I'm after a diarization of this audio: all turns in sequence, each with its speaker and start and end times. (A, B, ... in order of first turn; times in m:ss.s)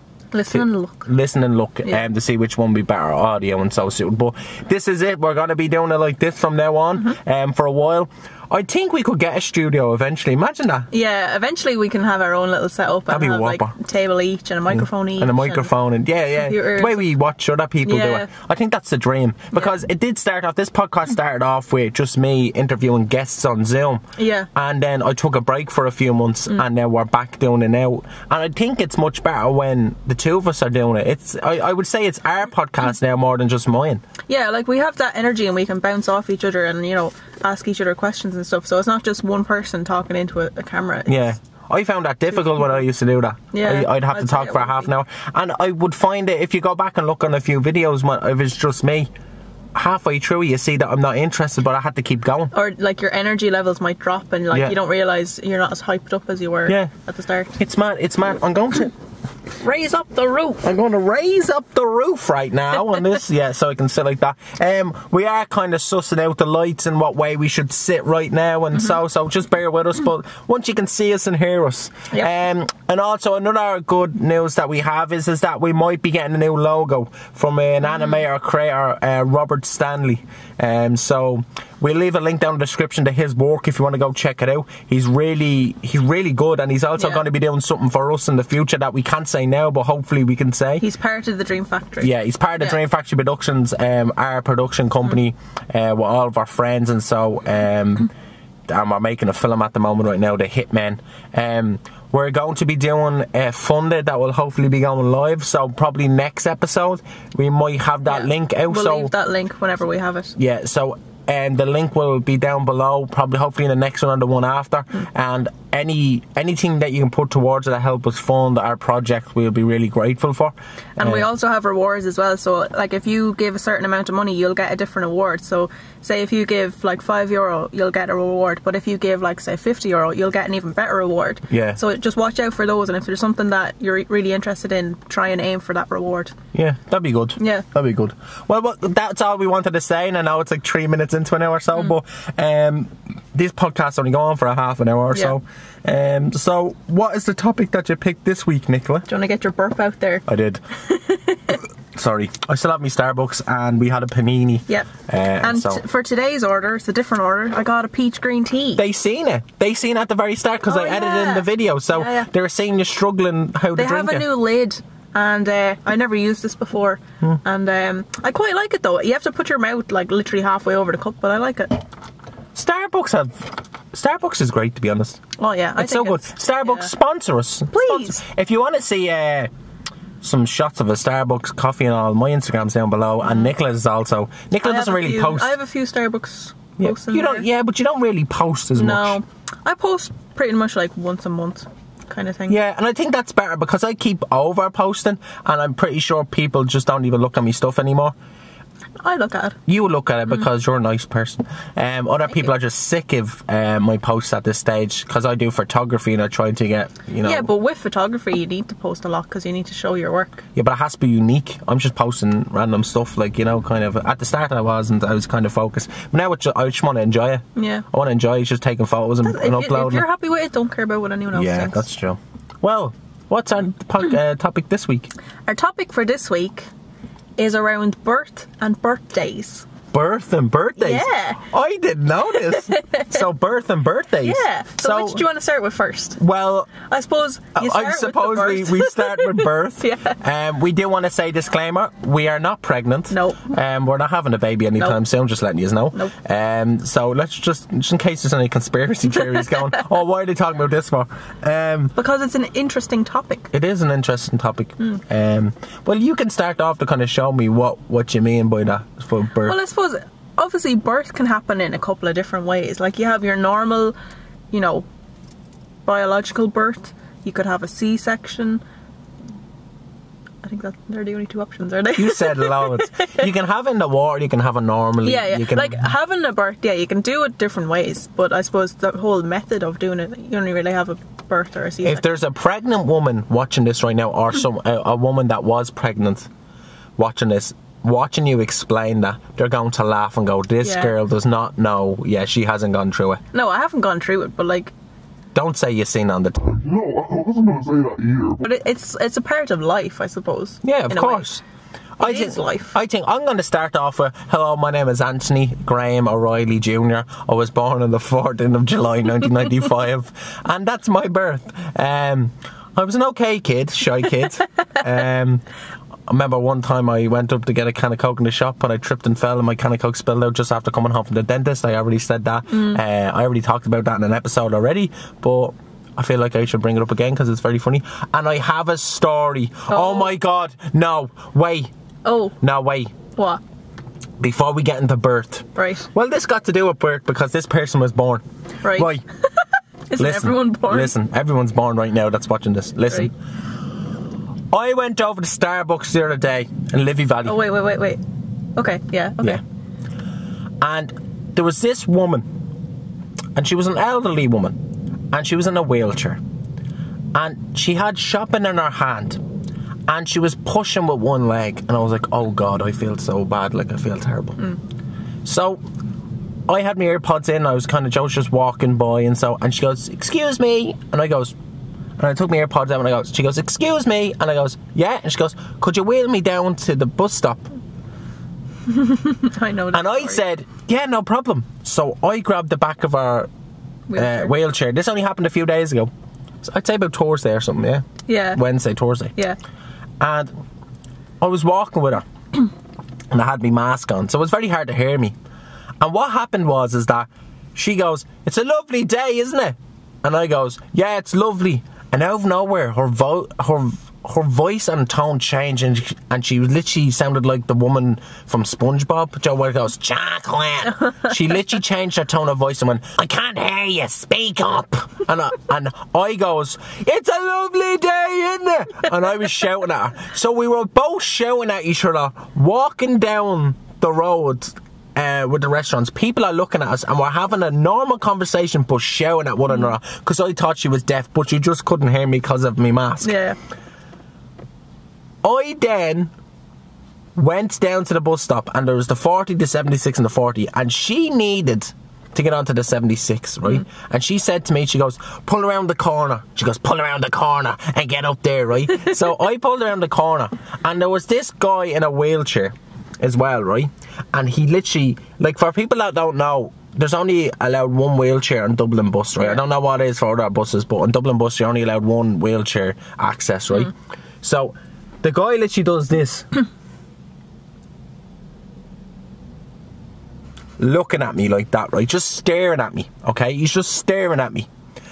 0:00.3-0:01.1 A
0:00.5-0:10.9 B
0:10.9-0:15.7 A
0:13.1-0:13.8 B
0:14.7-0:24.0 B
0:16.4-0:17.1 A
0:17.8-0:18.3 A
0:24.2-0:24.5 A
0:24.6-0:34.0 B
0:34.3-0:41.4 A
0:41.1-0:49.1 B
0:43.5-0:44.9 A
0:49.7-0:52.5 B
0:52.5-0:57.6 A
0:56.7-0:56.9 B
0:57.6-0:58.9 B
0:59.5-1:00.6 A
1:00.6-1:30.8 B
1:27.0-1:27.2 A
1:30.8-1:32.8 A
1:32.0-1:38.1 B
1:38.7-1:49.1 B
1:48.1-1:50.4 A
1:50.4-2:01.3 B
2:01.0-2:16.4 A
2:11.5-2:11.8 B
2:16.5-2:29.1 B
2:17.4-2:17.7 A
2:29.1-2:30.2 A
2:30.3-2:30.6 B
2:30.8-2:31.6 A
2:31.9-2:35.8 B
2:34.7-2:38.8 A
2:38.8-2:44.3 B
2:40.6-2:42.3 A
2:43.8-2:51.8 A
2:52.6-2:55.2 B
2:55.4-2:56.9 A
2:55.8-2:59.5 B
2:57.7-2:58.2 A
3:00.2-3:05.5 B
3:03.2-3:03.5 A
3:04.6-3:07.5 A
3:06.8-3:09.2 B
3:08.8-3:12.6 A
3:12.5-3:18.2 B
3:19.0-3:19.6 A
3:19.7-3:27.5 B
3:27.2-3:30.5 A
3:30.6-3:40.0 B
3:37.6-3:37.8 A
3:39.2-3:41.9 A
3:41.3-3:45.1 B
3:45.5-3:46.7 A
3:47.4-3:49.7 A
3:49.9-3:55.2 B
3:50.8-3:51.4 A
3:52.4-3:53.2 A
3:54.2-3:56.2 A
3:56.2-3:56.8 B
3:56.8-4:00.2 A
3:57.6-4:12.0 B
4:03.1-4:03.5 A
4:12.0-4:13.5 A
4:13.5-4:19.6 B
4:19.4-4:24.0 A
4:24.5-4:24.9 A
4:25.8-4:28.6 A
4:30.4-4:33.3 A
4:32.0-4:35.8 B
4:35.0-4:42.1 A
4:41.8-4:46.3 B
4:47.0-4:53.2 B
4:50.6-4:50.9 A
4:53.3-4:54.7 A
4:55.4-4:56.6 B
4:56.4-4:58.4 C
4:58.4-5:01.3 A
5:00.6-5:01.4 B
5:02.0-5:15.5 B
5:02.0-5:02.8 A
5:16.1-5:31.7 B
5:22.5-5:22.8 A
5:29.7-5:30.1 A
5:32.0-5:32.4 A
5:32.4-5:33.0 B
5:33.1-5:33.4 A
5:34.2-5:39.0 B
5:35.6-5:35.9 A
5:38.6-5:39.0 A
5:39.9-5:41.0 A
5:40.0-5:43.2 B
5:44.5-5:47.4 B
5:47.2-5:48.0 A
5:48.6-5:49.4 A
5:50.6-5:52.3 B
5:53.4-5:54.6 B
5:55.1-5:56.2 B
5:57.1-5:59.2 B
5:59.9-6:04.4 B
6:05.2-6:05.6 B
6:06.5-6:11.4 B
6:12.0-6:17.5 B
6:18.7-6:20.2 A
6:19.7-6:23.3 B
6:23.9-6:24.3 A
6:24.0-6:25.9 B
6:26.4-6:29.1 B
6:28.1-6:28.4 A
6:30.0-6:30.4 B
6:31.2-6:32.1 B
6:33.1-6:35.2 B
6:35.8-7:13.2 B
7:13.0-7:13.4 A
7:15.2-7:16.1 B
7:17.2-7:46.3 B
7:50.6-7:54.5 B